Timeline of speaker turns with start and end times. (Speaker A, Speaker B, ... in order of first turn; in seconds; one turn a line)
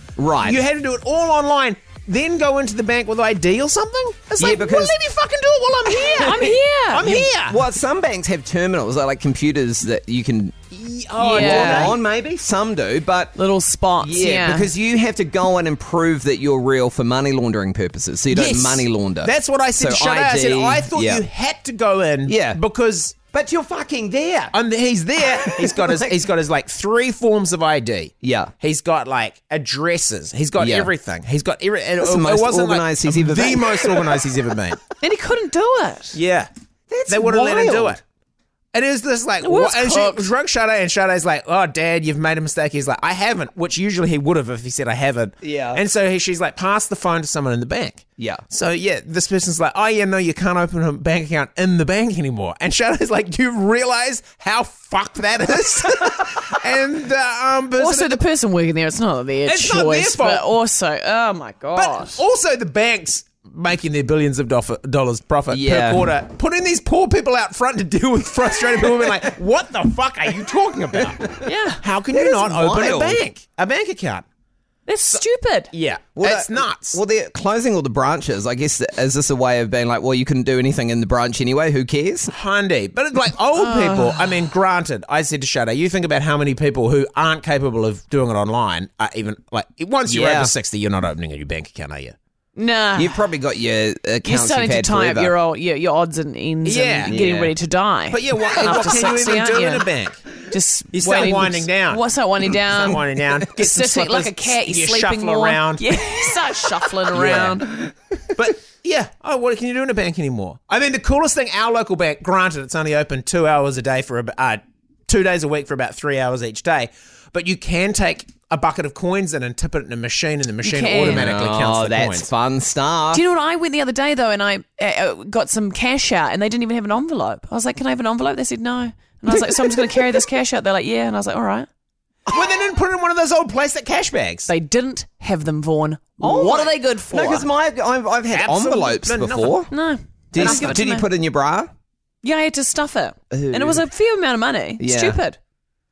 Speaker A: 0.2-0.6
Speaker B: 0.4-7.6
Speaker A: 4.4-5.0
Speaker C: 5.8-7.3
Speaker A: 6.2-10.5
Speaker B: 10.7-12.0
Speaker C: 11.2-12.0
Speaker A: 11.2-13.3
Speaker C: 13.3-14.7
Speaker A: 14.0-21.2
Speaker B: 18.3-23.1
Speaker A: 22.2-22.6
Speaker A: 23.3-24.5
Speaker B: 24.5-34.8
Speaker A: 25.2-26.1
Speaker A: 28.2-28.5
Speaker A: 30.6-30.9
Speaker A: 32.0-34.2
Speaker C: 35.0-36.2
Speaker B: 36.1-36.5
Speaker A: 36.9-38.0
Speaker B: 37.1-38.0
Speaker B: 38.7-58.2
Speaker C: 39.4-40.3
Speaker A: 45.4-45.8
Speaker A: 48.2-48.4
Speaker C: 57.8-62.2
Speaker B: 59.5-60.5
Speaker B: 61.7-71.3
Speaker A: 65.5-66.1
Speaker A: 68.8-69.2
Speaker C: 71.4-71.8
Speaker B: 71.8-74.2
Speaker A: 72.1-73.2
Speaker C: 74.9-75.7
Speaker B: 75.7-77.0
Speaker A: 76.1-82.3
Speaker B: 82.3-92.1
Speaker C: 83.5-84.4
Speaker A: 90.1-90.5
Speaker C: 92.5-93.3
Speaker A: 93.0-95.3
Speaker C: 94.2-99.9
Speaker B: 96.6-97.2
Speaker A: 97.0-97.5
Speaker B: 98.1-100.2
Speaker A: 98.6-98.8
Speaker C: 100.4-107.9
Speaker B: 100.9-102.0
Speaker B: 102.7-105.9
Speaker B: 107.1-107.6
Speaker B: 108.4-122.3
Speaker C: 120.6-121.3
Speaker A: 121.0-123.2
Speaker C: 123.1-131.7
Speaker B: 132.3-134.5
Speaker C: 134.5-137.5
Speaker A: 136.2-139.7
Speaker B: 138.3-139.6
Speaker C: 139.7-141.1
Speaker A: 140.3-141.7
Speaker B: 140.3-140.8
Speaker C: 142.2-145.4
Speaker A: 143.3-143.8
Speaker A: 144.8-145.2